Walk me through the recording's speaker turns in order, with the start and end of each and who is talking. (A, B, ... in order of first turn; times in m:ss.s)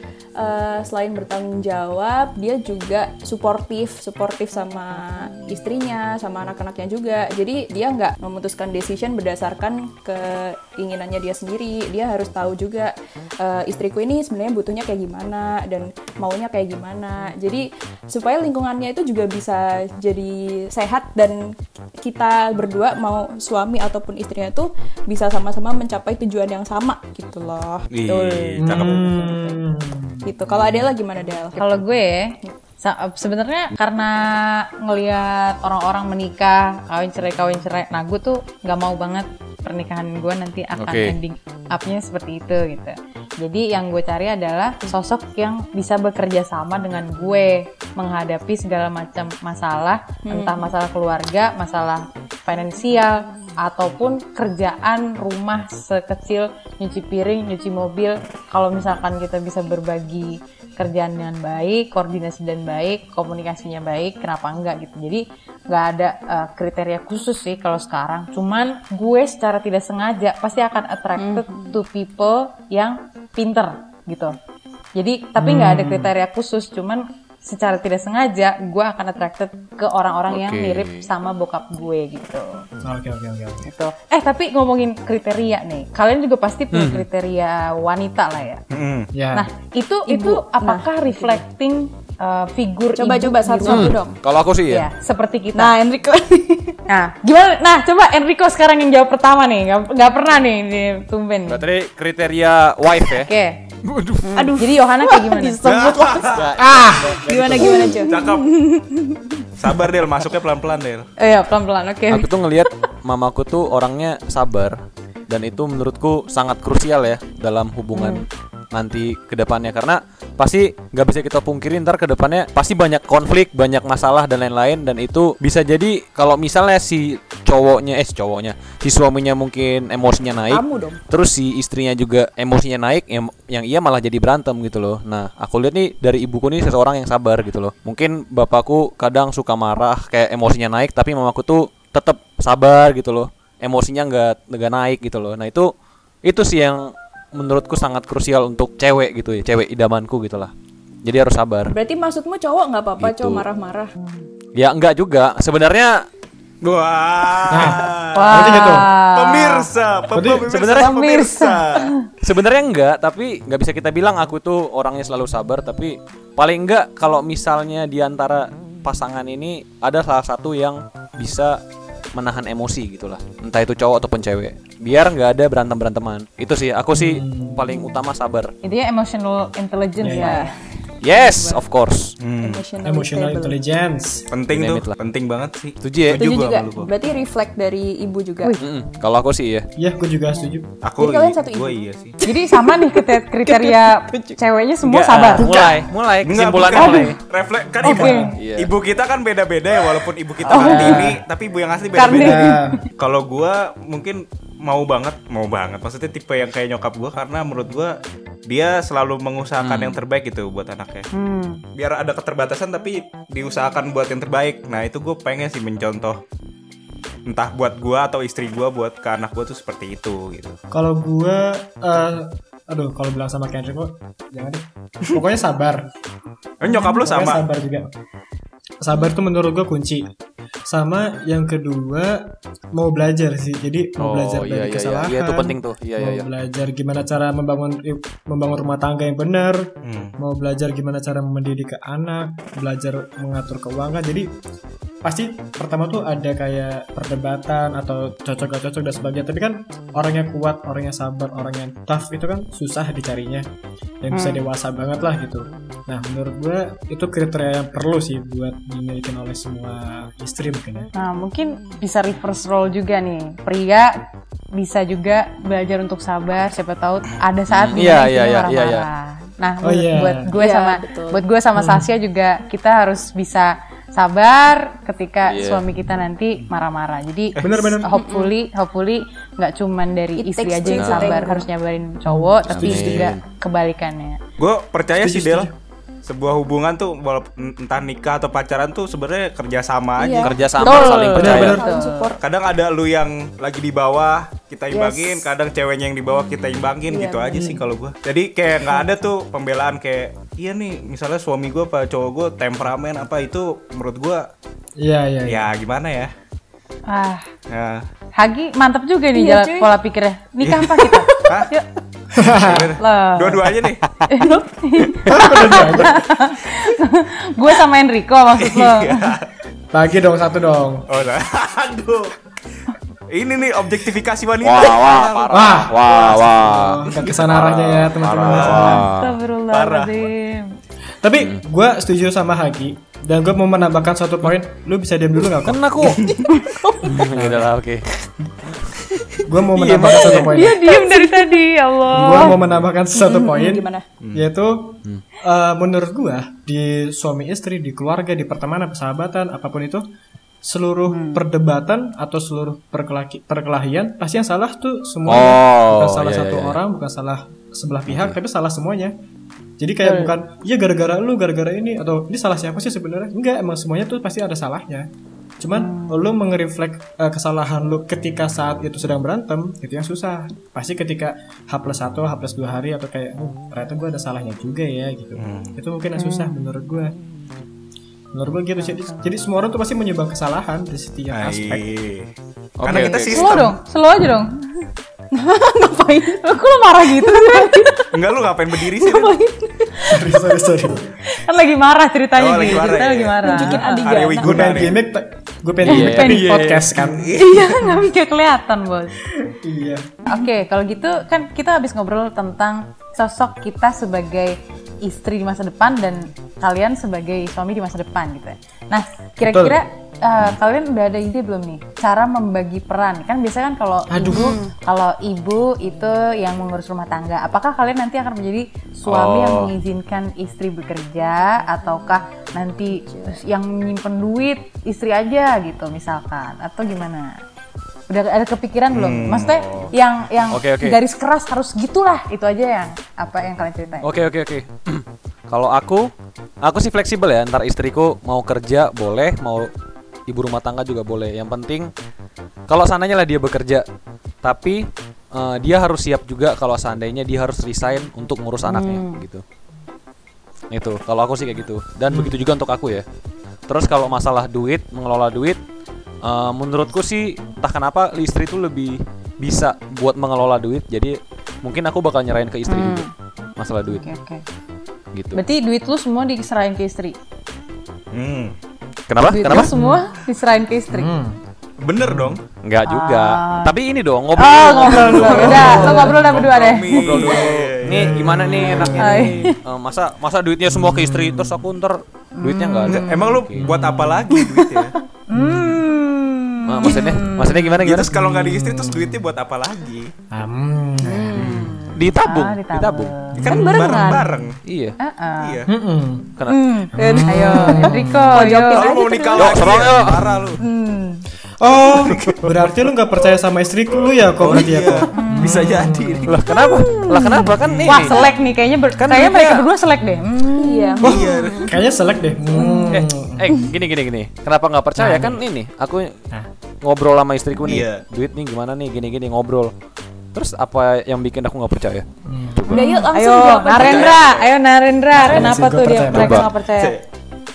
0:00.4-0:29.5 A
0:27.9-0:29.0 B
0:28.6-0:30.9 C
0:30.2-0:31.6 A
0:31.6-1:14.4 D
0:40.8-0:41.2 E
0:50.2-0:50.7 A
1:11.2-1:11.8 A
1:15.0-1:22.7 D
1:15.4-1:16.1 C
1:20.3-1:21.1 E
1:22.8-1:23.7 C
1:23.6-1:28.6 D
1:26.7-1:27.1 E
1:28.7-1:29.1 B
1:29.1-1:29.5 C
1:29.3-1:34.0 D
1:30.1-1:31.4 A
1:33.0-1:34.2 A
1:33.7-1:34.9 E
1:34.7-1:35.8 D
1:35.6-1:36.8 A
1:36.9-1:41.6 D
1:41.5-1:43.3 E
1:43.1-1:43.6 D
1:43.8-1:44.3 E
1:44.2-1:45.7 D
1:44.4-1:46.4 A
1:45.6-1:46.6 B
1:46.3-1:48.0 E
1:46.6-1:47.8 C
1:47.2-1:49.4 A
1:48.0-1:48.5 B
1:49.6-1:51.1 B
1:51.2-1:52.7 D
1:52.1-1:54.8 E
1:55.3-2:25.7 E
1:57.9-1:58.2 D
2:10.5-2:11.0 A
2:26.2-2:30.5 E
2:31.0-2:31.8 E
2:31.7-2:34.0 A
2:33.0-2:33.4 E
2:34.6-2:36.0 E
2:36.6-2:41.9 B
2:37.5-2:38.9 C
2:38.1-2:39.7 D
2:40.1-2:40.5 C
2:40.5-2:41.0 E
2:40.8-2:42.1 D
2:42.2-2:51.6 E
2:52.2-2:58.5 E
2:56.9-2:57.7 C
2:58.6-3:00.6 D
3:00.0-3:00.3 C
3:00.2-3:01.6 A
3:01.0-3:02.2 E
3:02.2-3:02.6 B
3:02.4-3:03.6 A
3:02.8-3:04.3 C
3:04.3-3:06.9 B
3:04.5-3:05.0 E
3:05.8-3:06.2 E
3:06.1-3:08.5 A
3:08.6-3:09.7 E
3:09.8-3:10.8 C
3:10.8-3:12.2 B
3:11.0-3:14.4 A
3:12.2-3:15.6 D
3:14.8-3:17.2 E
3:15.4-3:15.8 C
3:16.2-3:31.1 B
3:16.7-3:17.2 D
3:17.8-3:18.3 C
3:17.8-3:18.4 D
3:18.4-3:18.7 E
3:20.5-3:21.2 D
3:20.5-3:21.2 E
3:21.9-3:22.9 D
3:22.1-3:22.8 C
3:29.6-3:30.0 E
3:31.1-3:31.6 D
3:31.7-3:36.2 B
3:37.3-3:40.6 B
3:40.7-3:45.9 C
3:46.6-3:47.4 B
3:46.7-3:47.9 C
3:48.8-3:50.1 C
3:50.7-4:04.3 C
3:54.0-3:56.3 E
3:59.8-4:00.1 B
4:05.0-4:13.5 C
4:14.0-4:20.9 C
4:14.1-4:14.4 D
4:21.0-4:24.0 D
4:24.6-4:44.2 D
4:27.5-4:28.9 E
4:29.6-4:30.3 C
4:30.4-4:31.2 A
4:31.6-4:31.9 C
4:35.2-4:35.6 E
4:37.4-4:37.6 B
4:37.4-4:38.0 C
4:37.9-4:38.3 A
4:40.2-4:41.5 A
4:40.7-4:41.2 E
4:42.1-4:43.0 C
4:42.5-4:43.2 E
4:44.4-4:45.5 B
4:45.0-4:45.5 C
4:46.0-4:50.5 B
4:50.0-4:52.2 A
4:50.2-4:51.6 E
4:50.6-4:52.2 D
4:51.2-4:51.6 C
4:52.2-5:04.3 B
4:54.7-4:55.3 A
4:56.9-4:57.6 A
5:04.8-5:05.5 C
5:05.3-5:06.1 B
5:06.9-5:07.3 D
5:07.5-5:07.9 B
5:08.2-5:11.7 D
5:09.1-5:09.7 A
5:10.4-5:11.5 B
5:12.1-5:12.7 C
5:12.4-5:13.8 B
5:12.8-5:13.5 D
5:14.1-5:19.2 D
5:14.2-5:14.4 A
5:15.1-5:16.0 C
5:18.4-5:19.3 B
5:19.7-5:20.9 C
5:20.9-5:22.2 B
5:23.1-5:26.2 B
5:24.4-5:29.2 E
5:25.3-5:28.9 C
5:27.0-5:27.7 B
5:28.2-5:28.9 B
5:28.8-5:30.6 D
5:29.5-5:29.9 B
5:31.0-5:36.0 C
5:35.4-5:36.1 E
5:36.0-5:37.0 A
5:36.3-5:36.6 D
5:36.8-5:37.9 E
5:37.1-5:37.5 C
5:39.2-5:40.6 C
5:39.5-5:40.3 E
5:40.0-5:42.4 D
5:40.3-5:41.4 A
5:41.9-5:49.8 C
5:42.0-5:42.3 A
5:43.0-5:43.9 A
5:44.0-5:44.3 B
5:50.4-5:58.9 C
5:50.9-5:51.2 D
5:55.1-5:56.6 E
5:57.9-5:58.2 E
5:59.6-6:04.9 C
5:59.8-6:00.1 D
6:05.4-6:17.0 C
6:05.5-6:06.0 D
6:15.2-6:15.5 B
6:16.0-6:16.4 D
6:18.1-6:21.7 C
6:18.6-6:19.0 D
6:21.1-6:22.1 B
6:22.6-6:23.3 E
6:22.6-6:23.6 B
6:22.8-6:24.7 D
6:25.1-6:26.4 A
6:26.2-6:27.8 D
6:26.9-6:27.9 A
6:27.9-6:29.2 B
6:28.6-6:30.0 A
6:29.8-6:31.0 C
6:31.1-6:33.9 D
6:32.2-6:34.8 B
6:33.2-6:34.7 A
6:34.2-6:37.2 C
6:35.6-6:36.8 E
6:35.7-6:39.0 D
6:36.8-6:37.7 B
6:39.1-6:40.0 C
6:40.0-7:07.2 D
6:49.2-6:49.6 C
6:53.9-6:54.5 C
6:58.9-6:59.5 E
7:07.9-7:13.9 D
7:08.7-7:09.4 B
7:09.3-7:09.7 E
7:10.3-7:10.8 E
7:13.8-7:15.9 E
7:16.4-7:19.5 E
7:20.1-7:21.7 E
7:22.5-7:23.6 E
7:24.2-7:29.2 E
7:28.4-7:29.0 D
7:30.5-7:32.8 E
7:31.9-7:32.2 C
7:33.5-7:35.4 E
7:36.0-7:43.9 E
7:42.5-7:42.9 D
7:43.7-7:44.2 D
7:44.9-7:45.2 E
7:45.1-7:47.0 D
7:47.9-7:48.4 B
7:48.9-7:49.6 E
7:49.0-7:50.9 D
7:49.5-7:49.9 C
7:50.7-7:51.2 C
7:51.6-7:52.2 B
7:51.8-7:52.2 C
7:52.4-8:03.6 E
7:52.7-7:53.6 D
7:54.2-7:57.2 D
7:54.6-7:56.0 C
7:54.9-7:58.3 B
7:57.6-7:59.2 C
7:58.5-7:59.4 D
8:00.5-8:01.5 C
8:02.2-8:03.2 D
8:02.7-8:04.8 B
8:03.3-8:04.1 C
8:04.2-8:04.5 D
8:05.1-8:07.6 D
8:05.1-8:05.6 C
8:06.5-8:07.9 E
8:07.6-8:09.9 B
8:07.8-8:09.0 C
8:10.1-8:11.6 C
8:10.8-8:14.0 D
8:11.2-8:12.9 E
8:13.1-8:14.1 C
8:13.2-8:14.4 B
8:13.3-8:14.0 A
8:14.4-8:14.8 E
8:14.8-8:15.4 D
8:15.2-8:15.5 B
8:15.5-8:16.2 C
8:16.2-8:16.4 E
8:16.3-8:18.8 D
8:16.7-8:18.2 C
8:16.8-8:19.6 A
8:18.5-8:20.4 B
8:19.2-8:20.2 E
8:19.9-8:20.4 C
8:20.4-8:21.0 D
8:21.4-8:26.2 C
8:21.9-8:22.2 B
8:24.1-8:26.2 B
8:24.9-8:25.5 D
8:26.1-8:28.1 E
8:26.4-8:31.0 D
8:27.4-8:28.0 B
8:28.8-8:29.5 E
8:30.4-8:31.5 A
8:30.8-8:33.3 C
8:30.8-8:31.5 B
8:32.3-8:32.8 D
8:32.7-8:36.0 E
8:34.8-8:35.2 C
8:36.6-8:39.5 E
8:37.4-8:37.8 B
8:40.1-8:42.8 E
8:42.1-8:42.4 C
8:42.5-8:44.0 A
8:42.5-8:46.8 D
8:43.6-8:44.3 B
8:44.9-8:46.3 C
8:45.0-8:45.3 E
8:45.9-8:46.3 E
8:46.4-8:46.8 B